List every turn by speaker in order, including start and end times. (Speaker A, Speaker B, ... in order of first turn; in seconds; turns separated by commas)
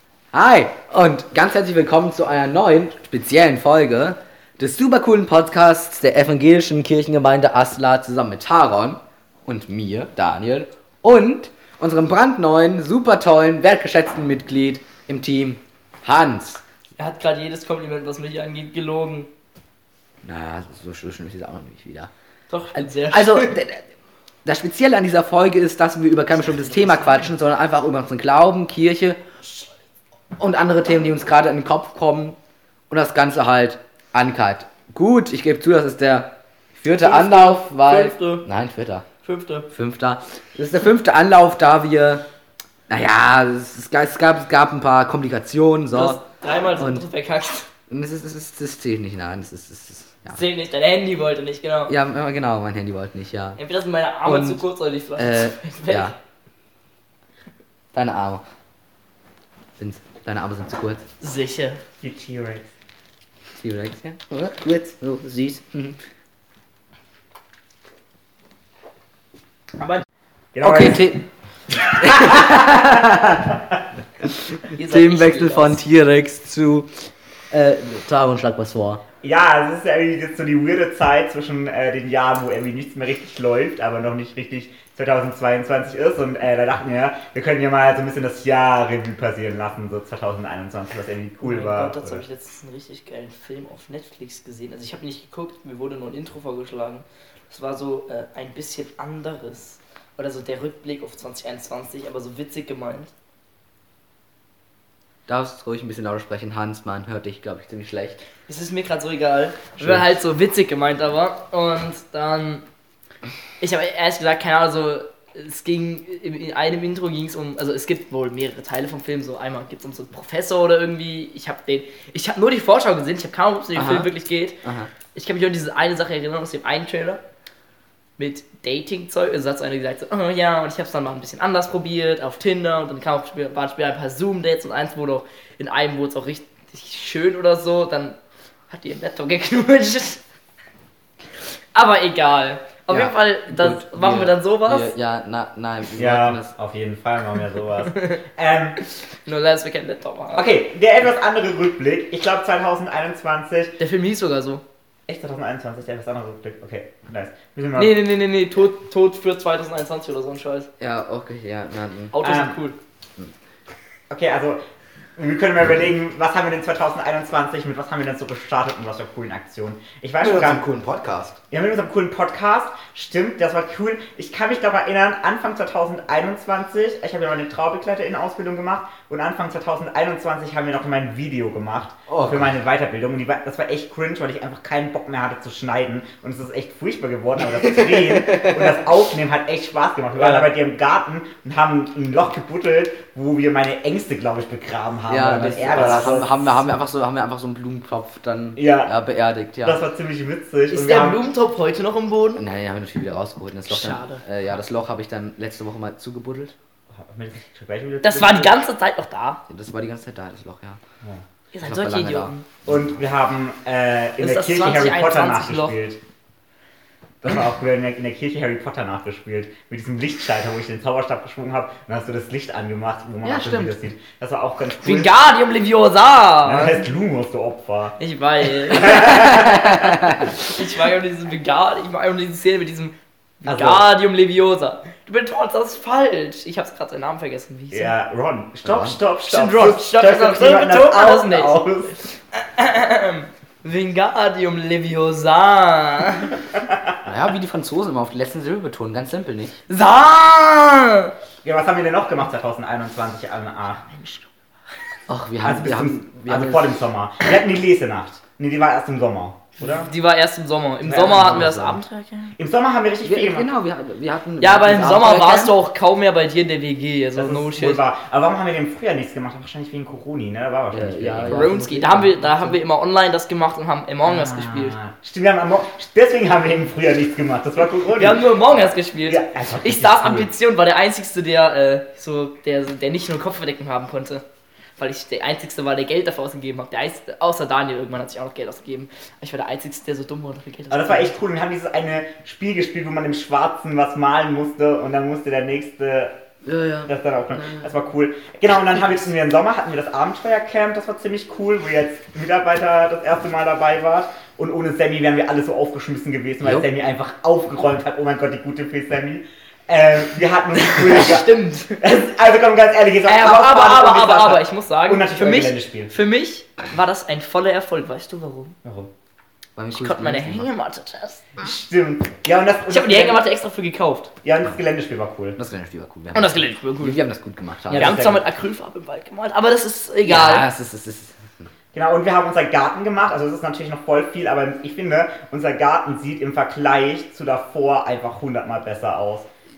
Speaker A: 0.3-16.6, Speaker B: 17.0-19.3, Speaker A: 20.2-22.1, Speaker B: 22.5-23.5, Speaker A: 22.7-23.9, Speaker A: 24.4-29.2, Speaker A: 30.4-32.4, Speaker A: 32.9-39.1, Speaker B: 37.0-38.4, Speaker B: 39.2-39.7, Speaker A: 39.7-42.2, Speaker A: 42.9-46.2, Speaker B: 45.9-47.7, Speaker A: 46.8-47.0, Speaker A: 47.9-50.4, Speaker B: 50.3-51.9, Speaker A: 51.9-53.6, Speaker B: 53.6-56.1, Speaker A: 54.2-54.6, Speaker A: 55.2-56.1, Speaker A: 57.9-58.4, Speaker A: 59.8-61.0, Speaker B: 61.2-61.8, Speaker C: 62.0-62.7, Speaker A: 63.5-66.0, Speaker C: 70.5-71.1, Speaker A: 70.6-71.2, Speaker A: 71.8-73.5, Speaker C: 71.8-73.8, Speaker A: 74.7-77.0, Speaker B: 74.7-75.8, Speaker A: 77.5-79.0, Speaker C: 79.2-92.2, Speaker B: 91.4-103.1, Speaker A: 105.3-108.2, Speaker B: 108.5-112.7, Speaker B: 113.6-124.6, Speaker A: 123.7-124.9, Speaker B: 125.1-127.2, Speaker B: 128.2-138.2, Speaker B: 138.7-140.2, Speaker B: 141.7-144.9, Speaker A: 142.9-146.5, Speaker C: 145.9-148.8, Speaker B: 147.9-148.2, Speaker B: 149.2-150.5, Speaker C: 150.3-153.8, Speaker B: 153.8-154.6, Speaker C: 155.1-158.0, Speaker B: 157.8-160.7, Speaker A: 160.8-162.1, Speaker B: 162.1-162.8, Speaker C: 162.2-162.6, Speaker C: 164.1-164.6, Speaker C: 165.2-170.6, Speaker A: 170.2-171.4, Speaker C: 171.5-196.4, Speaker A: 182.1-182.5, Speaker A: 187.6-188.8, Speaker A: 190.2-190.5, Speaker A: 195.1-199.8, Speaker C: 198.6-198.9, Speaker C: 199.6-201.2, Speaker B: 200.7-202.4, Speaker A: 202.3-206.5, Speaker B: 203.7-204.2, Speaker C: 206.9-208.5, Speaker B: 208.0-209.4, Speaker A: 209.5-210.8, Speaker B: 211.5-212.4, Speaker A: 211.6-212.7, Speaker C: 212.6-216.0, Speaker B: 214.2-215.8, Speaker C: 217.2-225.1, Speaker A: 223.2-223.7, Speaker B: 224.8-226.8, Speaker C: 226.4-228.0, Speaker B: 228.0-229.5, Speaker C: 228.6-230.1, Speaker A: 229.0-230.3, Speaker B: 230.2-237.9, Speaker C: 233.4-233.9, Speaker C: 237.7-241.9, Speaker A: 238.6-239.0, Speaker B: 239.3-246.3, Speaker C: 246.6-246.9, Speaker A: 247.0-249.6, Speaker B: 249.7-251.1, Speaker C: 251.4-253.8, Speaker B: 253.8-254.3, Speaker A: 255.1-256.7, Speaker C: 255.4-259.9, Speaker B: 259.6-262.3, Speaker C: 260.9-261.6, Speaker A: 261.0-261.8, Speaker C: 262.4-263.5, Speaker A: 263.0-265.6, Speaker B: 264.4-267.8, Speaker C: 267.1-271.5, Speaker A: 270.7-272.6, Speaker B: 271.2-274.8, Speaker C: 274.1-278.3, Speaker B: 277.9-284.2, Speaker C: 279.1-280.3, Speaker B: 284.8-291.1, Speaker C: 290.7-296.1, Speaker A: 296.4-296.9, Speaker C: 296.8-315.9, Speaker B: 310.6-311.8, Speaker B: 313.1-318.6, Speaker C: 318.6-318.9, Speaker A: 319.6-320.5, Speaker B: 319.7-321.2, Speaker C: 321.4-323.2, Speaker B: 322.7-324.1, Speaker C: 324.2-325.4, Speaker A: 325.4-328.1, Speaker B: 326.1-327.0, Speaker C: 327.7-328.2, Speaker B: 327.7-330.5, Speaker A: 330.0-331.4, Speaker C: 331.7-339.3